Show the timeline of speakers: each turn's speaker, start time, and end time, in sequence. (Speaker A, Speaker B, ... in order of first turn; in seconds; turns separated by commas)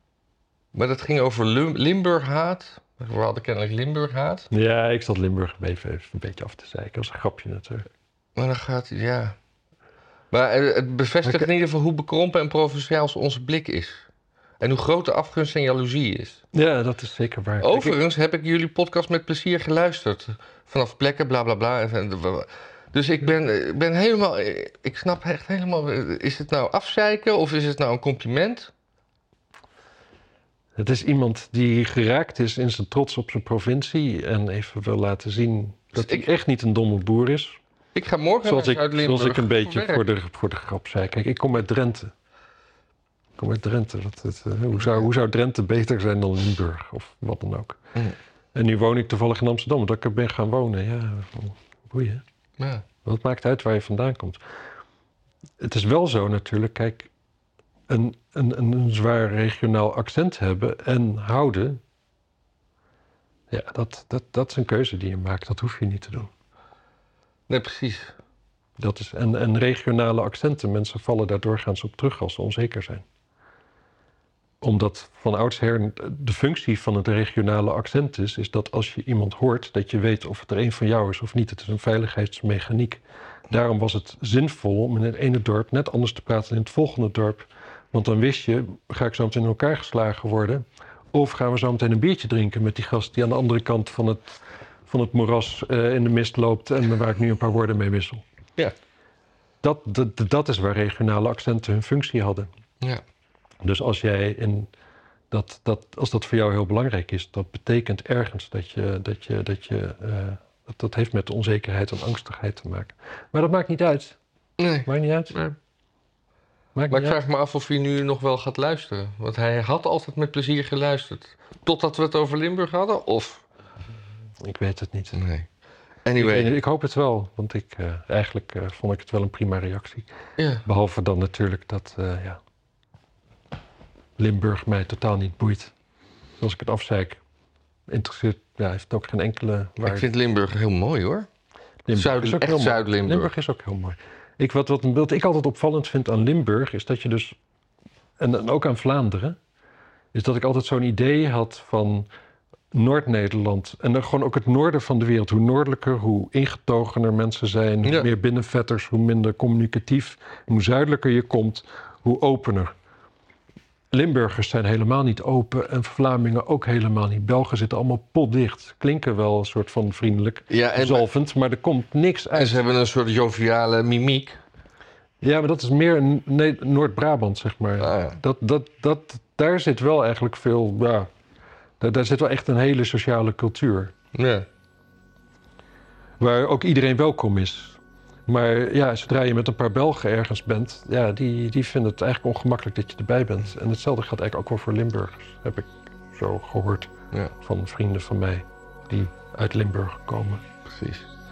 Speaker A: 0.7-4.5, Speaker B: 4.5-7.9, Speaker A: 8.3-9.3, Speaker A: 10.3-14.1, Speaker A: 14.6-16.4, Speaker B: 16.5-18.0, Speaker A: 17.6-28.7, Speaker B: 30.8-37.6, Speaker A: 35.9-36.3, Speaker A: 37.9-40.0, Speaker B: 38.4-42.1, Speaker B: 43.4-47.8, Speaker A: 44.7-45.0, Speaker B: 48.5-52.2, Speaker A: 52.6-52.8, Speaker B: 53.0-54.4, Speaker B: 55.6-57.1, Speaker B: 57.9-61.8, Speaker B: 63.5-66.3, Speaker A: 67.5-68.2, Speaker B: 68.8-73.0, Speaker B: 74.6-98.2, Speaker B: 99.6-102.5, Speaker B: 103.6-104.7, Speaker B: 105.3-114.2, Speaker A: 114.6-115.5, Speaker B: 114.8-115.4, Speaker B: 116.7-117.2, Speaker A: 116.9-123.4, Speaker B: 124.4-125.2, Speaker A: 125.1-125.5, Speaker A: 126.0-126.5, Speaker B: 126.2-130.1, Speaker A: 130.4-130.6, Speaker B: 130.6-132.4, Speaker B: 134.2-135.7, Speaker B: 136.4-137.2, Speaker B: 137.9-140.1, Speaker A: 139.8-141.3, Speaker B: 141.9-147.3, Speaker A: 141.9-143.3, Speaker B: 148.2-149.4, Speaker B: 150.1-152.1, Speaker B: 152.7-162.7, Speaker A: 157.8-158.1, Speaker B: 163.9-172.6, Speaker A: 170.5-171.1, Speaker A: 172.3-174.4, Speaker B: 175.2-181.1, Speaker A: 177.8-178.2, Speaker B: 181.8-183.9, Speaker A: 184.1-184.4, Speaker B: 186.2-200.4, Speaker A: 200.7-201.1